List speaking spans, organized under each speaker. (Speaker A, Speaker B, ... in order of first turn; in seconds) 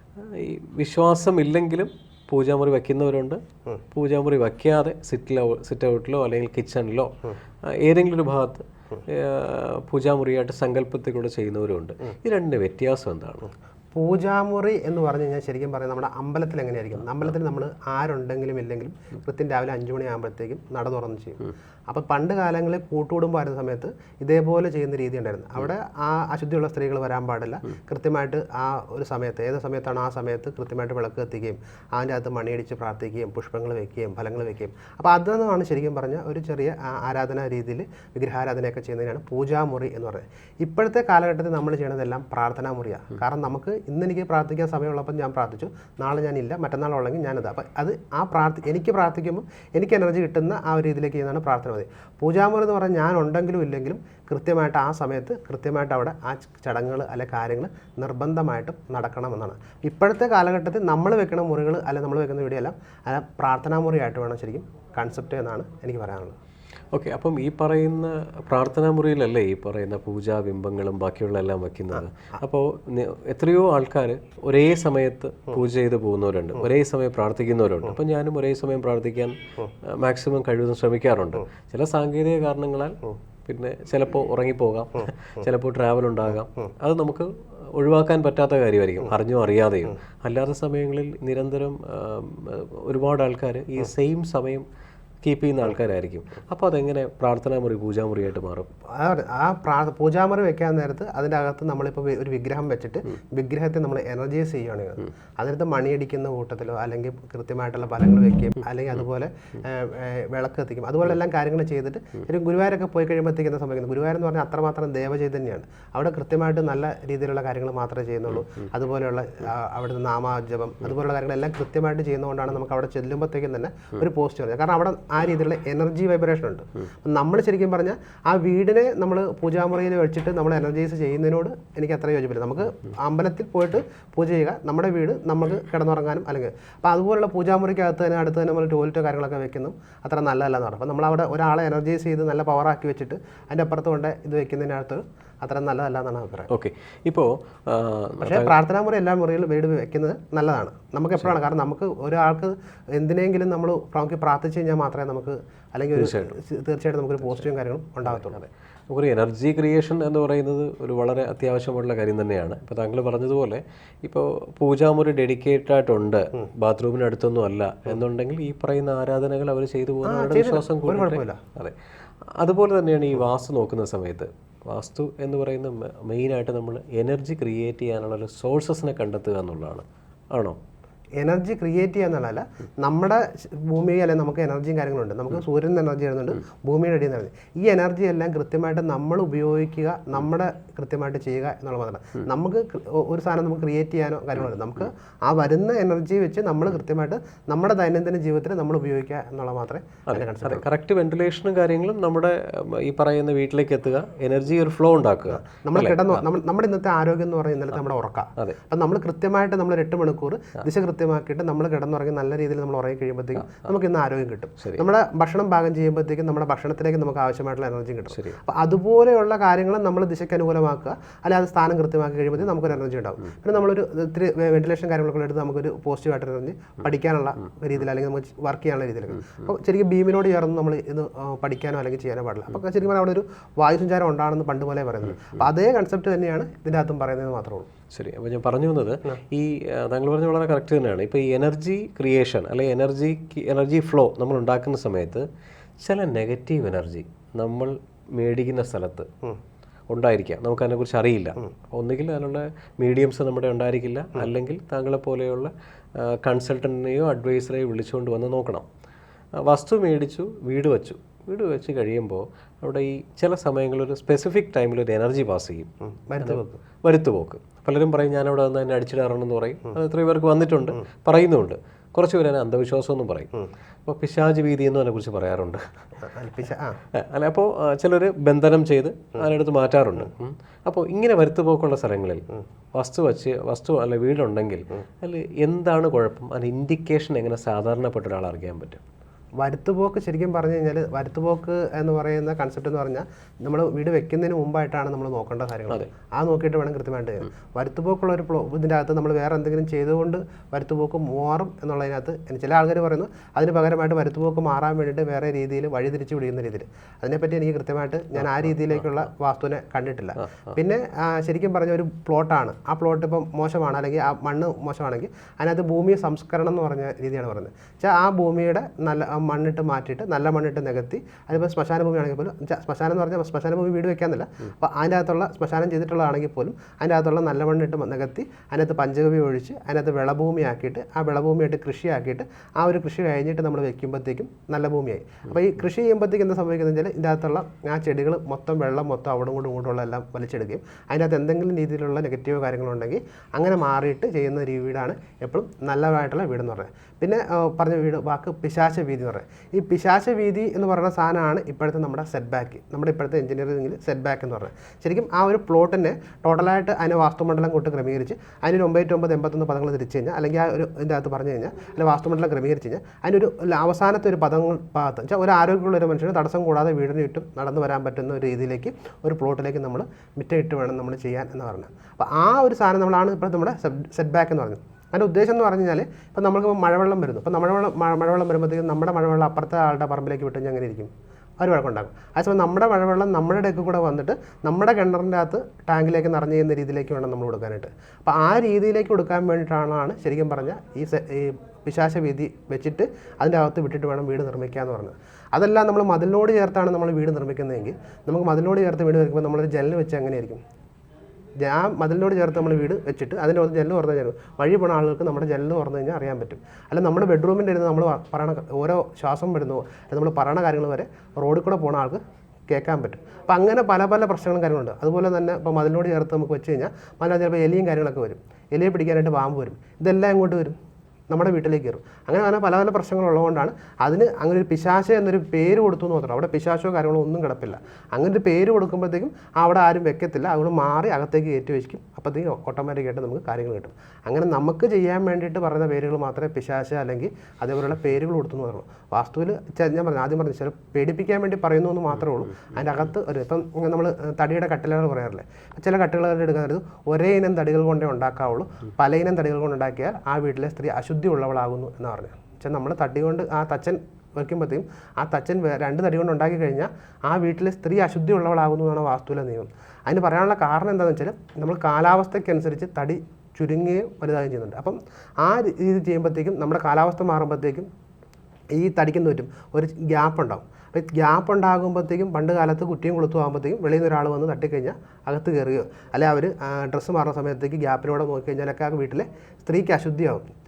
Speaker A: 0.2-3.4, 3.9-7.1, 7.7-13.5, 66.9-94.7, 95.2-98.7, 146.5-148.5, 155.9-156.3, 158.1-171.8, 172.4-180.6, 200.1-206.2, 218.1-218.4, 237.9-245.2, 245.8-249.1, 249.9-258.6, 259.4-265.7, 266.2-273.3, 273.9-275.6, 276.9-288.8, 308.2-308.9
Speaker B: 13.9-66.4, 98.9-146.5, 148.2-158.4, 170.1-171.4, 181.2-200.7, 205.3-237.7, 265.8-266.6, 276.0-276.8, 289.4-400.4, 401.4-420.6, 421.1-467.7, 468.5-480.2